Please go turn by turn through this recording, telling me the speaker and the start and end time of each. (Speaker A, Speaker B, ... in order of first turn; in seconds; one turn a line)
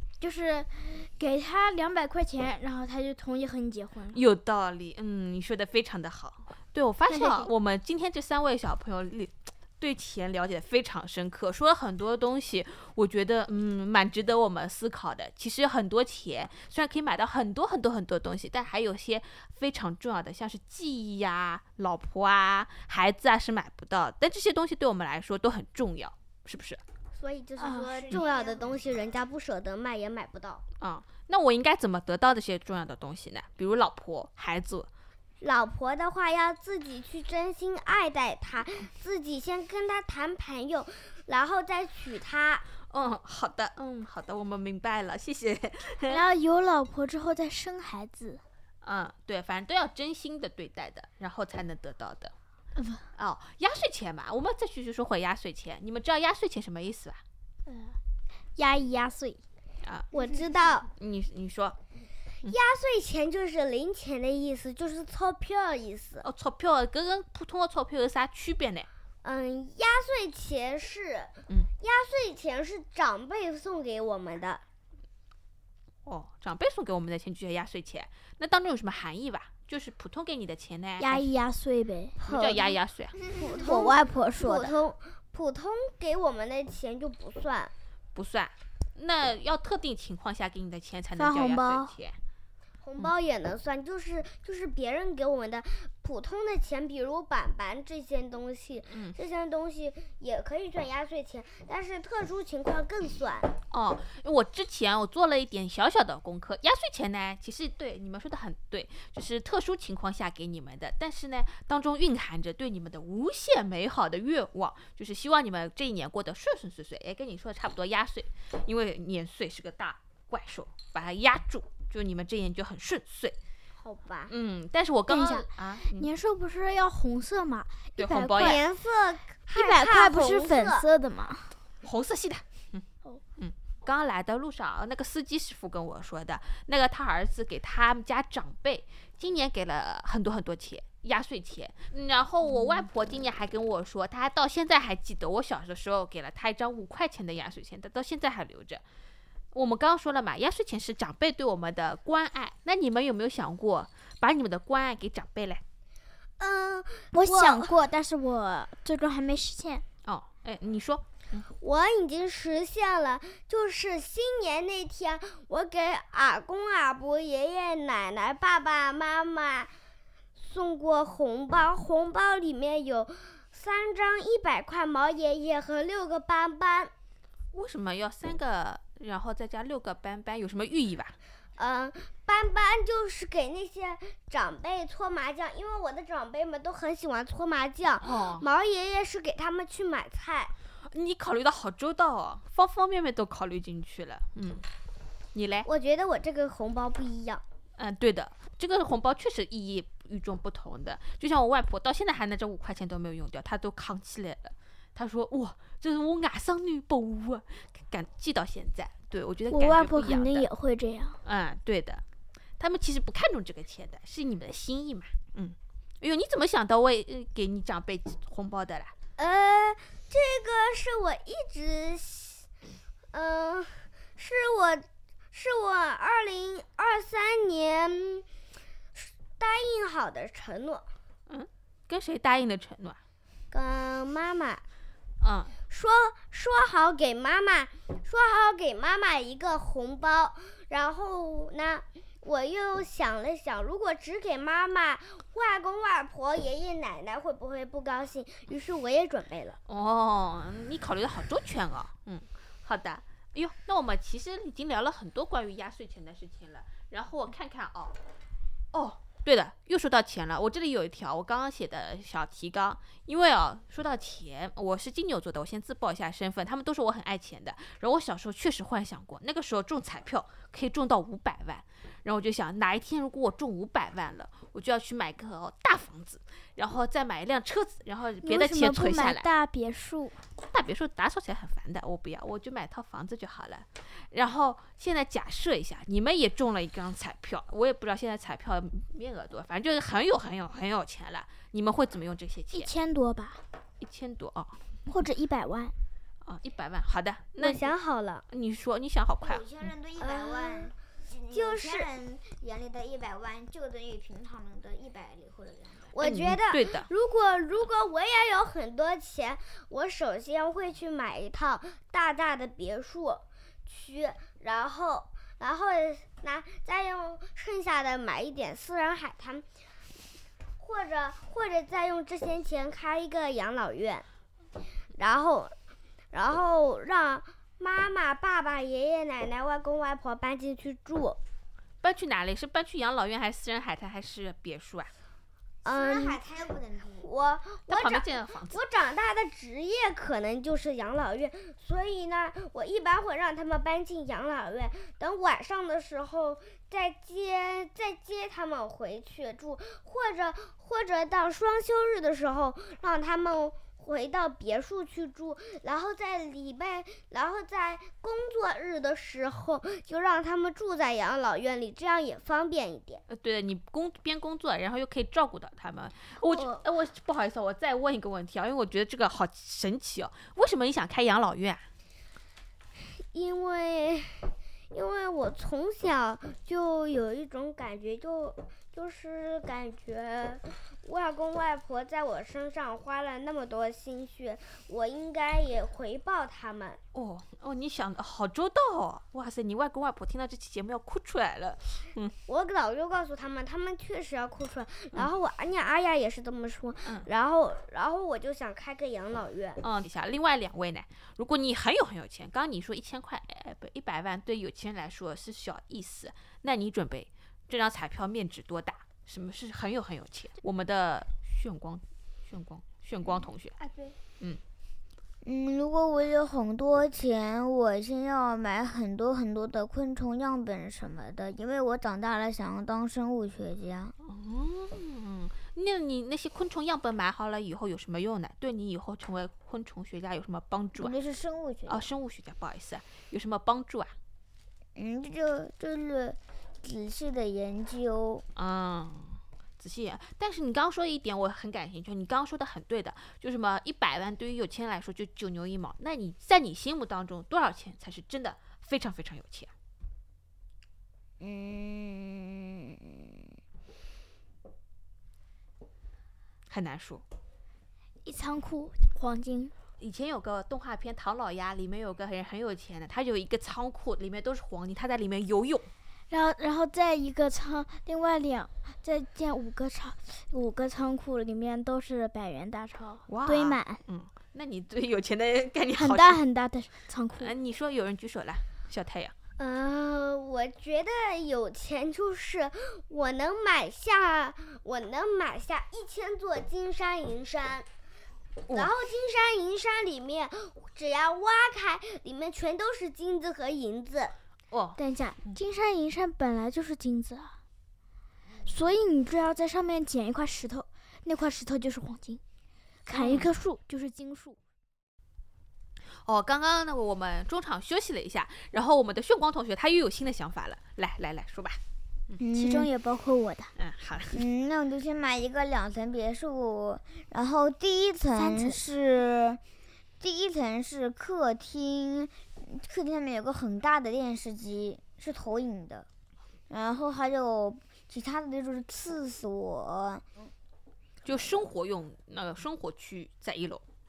Speaker A: 0.2-4.2
Speaker B: 4.1-26.8
Speaker A: 7.1-7.5
Speaker C: 27.1-30.6
Speaker A: 27.6-28.2
Speaker D: 28.2-28.5
Speaker B: 30.8-34.9
Speaker C: 35.4-42.6
Speaker B: 42.9-46.2
Speaker A: 46.1-48.4
Speaker B: 48.8-52.3
Speaker A: 52.8-53.0
Speaker B: 53.1-57.2
Speaker A: 57.7-58.0
Speaker A: 58.5-59.4
Speaker B: 59.8-60.1
Speaker C: 60.1-60.9
Speaker B: 61.0-61.8
Speaker C: 62.4-66.2
Speaker B: 66.2-68.9
Speaker C: 69.2-74.6
Speaker B: 76.0-81.3
Speaker A: 81.0-82.2
Speaker C: 82.2-82.8
Speaker B: 82.2-83.2
Speaker C: 83.3-87.7
Speaker A: 83.4-84.7
Speaker B: 88.1-92.2
Speaker A: 91.2-91.9
Speaker C: 92.8-103.5
Speaker B: 98.9-99.2
Speaker B: 103.7-123.3
Speaker C: 123.8-124.3
Speaker B: 124.3-126.1
Speaker A: 125.1-128.6
Speaker B: 128.0-128.6
Speaker C: 128.4-130.8
Speaker A: 129.5-131.5
Speaker B: 131.8-132.8
Speaker B: 133.4-148.8
Speaker B: 149.5-155.6
Speaker C: 156.4-157.7
Speaker A: 157.1-159.8
Speaker B: 160.0-161.4
Speaker C: 161.6-169.7
Speaker C: 170.4-176.9
Speaker B: 177.5-181.2
Speaker C: 181.6-190.5
Speaker B: 188.0-188.4
Speaker B: 190.9-194.7
Speaker B: 195.3-195.7
Speaker C: 195.6-197.4
Speaker B: 197.8-210.5
Speaker A: 209.5-211.2
Speaker B: 211.2-212.0
Speaker B: 212.6-218.9
Speaker C: 219.2-222.4
Speaker C: 223.1-228.2
Speaker C: 228.9-230.8
Speaker B: 231.3-233.0
Speaker C: 233.5-234.6
Speaker B: 235.2-235.5
Speaker C: 235.7-249.6
Speaker B: 249.7-257.9
Speaker B: 258.7-279.2
Speaker A: 278.2-280.2
Speaker B: 280.4-292.7
Speaker A: 292.5-293.4
Speaker B: 293.8-294.6
Speaker A: 294.9-295.7
Speaker B: 296.2-297.7
Speaker C: 297.4-298.2
Speaker B: 298.3-299.4
Speaker D: 299.2-305.9
Speaker C: 300.0-300.7
Speaker C: 301.3-301.9
Speaker C: 305.9-319.4
Speaker B: 306.0-306.9
Speaker C: 320.6-324.1
Speaker C: 324.9-325.5
Speaker C: 326.1-331.2
Speaker B: 331.8-334.9
Speaker C: 335.6-336.2
Speaker D: 335.6-337.1
Speaker C: 337.0-363.0
Speaker B: 337.7-338.6
Speaker B: 363.1-371.6
Speaker C: 366.2-366.6
Speaker C: 373.0-386.8
Speaker B: 386.9-392.1
Speaker C: 392.3-399.6
Speaker B: 399.6-413.6
Speaker D: 415.2-423.9
Speaker B: 424.0-430.9
Speaker D: 430.8-431.9
Speaker B: 431.7-433.9
Speaker D: 434.7-438.2
Speaker B: 438.3-449.5
Speaker D: 451.2-453.3
Speaker B: 456.5-457.0
Speaker A: 458.0-459.5
Speaker B: 459.8-465.7
Speaker A: 466.1-473.8
Speaker B: 473.1-476.2
Speaker A: 475.8-477.3
Speaker B: 477.2-479.1
Speaker C: 479.4-487.6
Speaker C: 488.5-494.1
Speaker B: 494.5-495.4
Speaker A: 494.8-497.4
Speaker A: 498.4-502.2
Speaker A: 502.9-504.4
Speaker B: 502.9-503.3
Speaker B: 506.0-511.6
Speaker D: 512.2-512.7
Speaker A: 512.3-513.5
Speaker B: 513.6-514.2
Speaker D: 514.1-519.4
Speaker A: 518.1-518.6
Speaker D: 520.0-525.9
Speaker D: 526.5-530.3
Speaker B: 531.0-533.6